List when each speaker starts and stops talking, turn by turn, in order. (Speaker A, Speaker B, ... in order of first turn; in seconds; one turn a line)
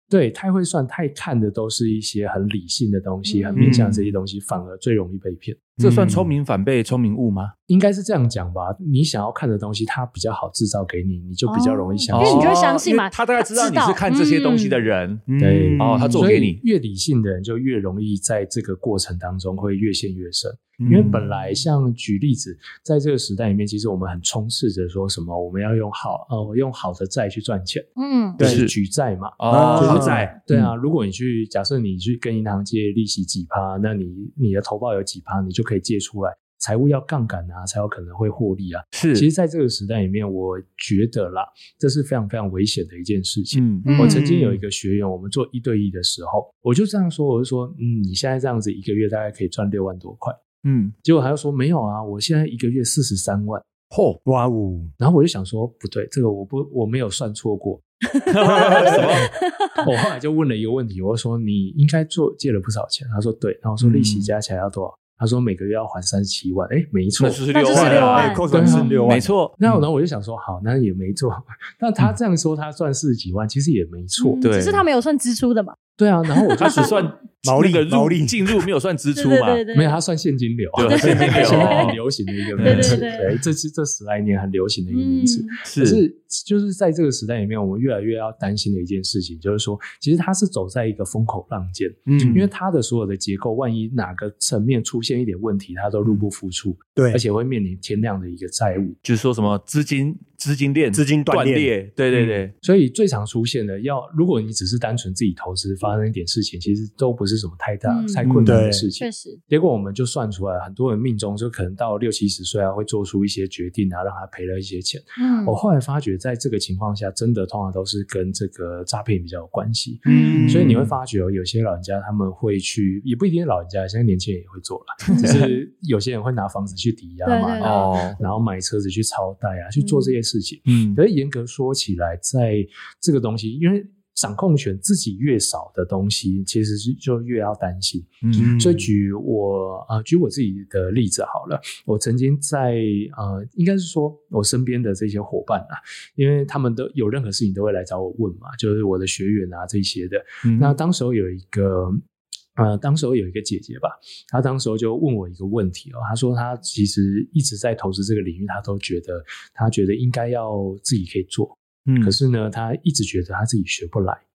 Speaker A: 0.1-5.7
Speaker B: 3.3-3.7
Speaker C: 3.6-4.1
Speaker C: 5.8-6.3
Speaker D: 5.8-7.5
Speaker A: 7.7-12.6
Speaker B: 11.5-14.8
Speaker D: 12.1-15.2
Speaker C: 15.3-16.3
Speaker A: 15.4-27.9
Speaker D: 15.8-16.6
Speaker C: 20.8-21.3
Speaker B: 28.0-28.4
Speaker C: 28.4-28.6
Speaker A: 28.4-50.4
Speaker D: 28.4-28.7
Speaker D: 29.4-30.4
Speaker C: 29.5-30.7
Speaker D: 38.9-39.3
Speaker D: 43.5-43.9
Speaker B: 43.9-44.2
Speaker C: 43.9-44.6
Speaker D: 50.6-50.9
Speaker A: 51.0-53.6
Speaker D: 53.9-54.2
Speaker C: 54.2-54.9
Speaker A: 55.0-57.8
Speaker B: 58.1-59.9
Speaker D: 58.3-59.3
Speaker A: 59.8-69.0
Speaker D: 63.8-64.3
Speaker D: 67.2-69.8
Speaker B: 67.5-69.2
Speaker C: 67.7-69.3
Speaker A: 69.6-74.4
Speaker B: 74.2-75.8
Speaker D: 74.4-74.8
Speaker A: 76.0-77.1
Speaker B: 76.3-76.9
Speaker D: 76.6-79.6
Speaker C: 77.4-78.7
Speaker B: 79.2-80.0
Speaker A: 79.7-99.0
Speaker D: 80.8-82.0
Speaker B: 80.8-82.0
Speaker C: 81.3-81.7
Speaker B: 82.6-83.3
Speaker D: 82.6-83.0
Speaker B: 84.9-85.6
Speaker D: 85.7-86.0
Speaker C: 92.1-92.5
Speaker C: 97.0-97.2
Speaker D: 99.0-102.5
Speaker C: 100.9-102.4
Speaker A: 102.6-152.0
Speaker B: 107.9-108.2
Speaker C: 108.4-108.9
Speaker B: 109.0-109.4
Speaker B: 115.2-115.6
Speaker B: 120.1-120.5
Speaker C: 120.1-120.9
Speaker D: 120.5-120.9
Speaker D: 125.1-125.5
Speaker B: 125.1-125.5
Speaker B: 127.2-128.3
Speaker D: 127.6-128.2
Speaker B: 129.8-130.1
Speaker D: 130.7-131.0
Speaker D: 138.2-138.5
Speaker C: 138.4-138.9
Speaker D: 150.4-150.8
Speaker A: 152.6-164.2
Speaker D: 161.9-162.2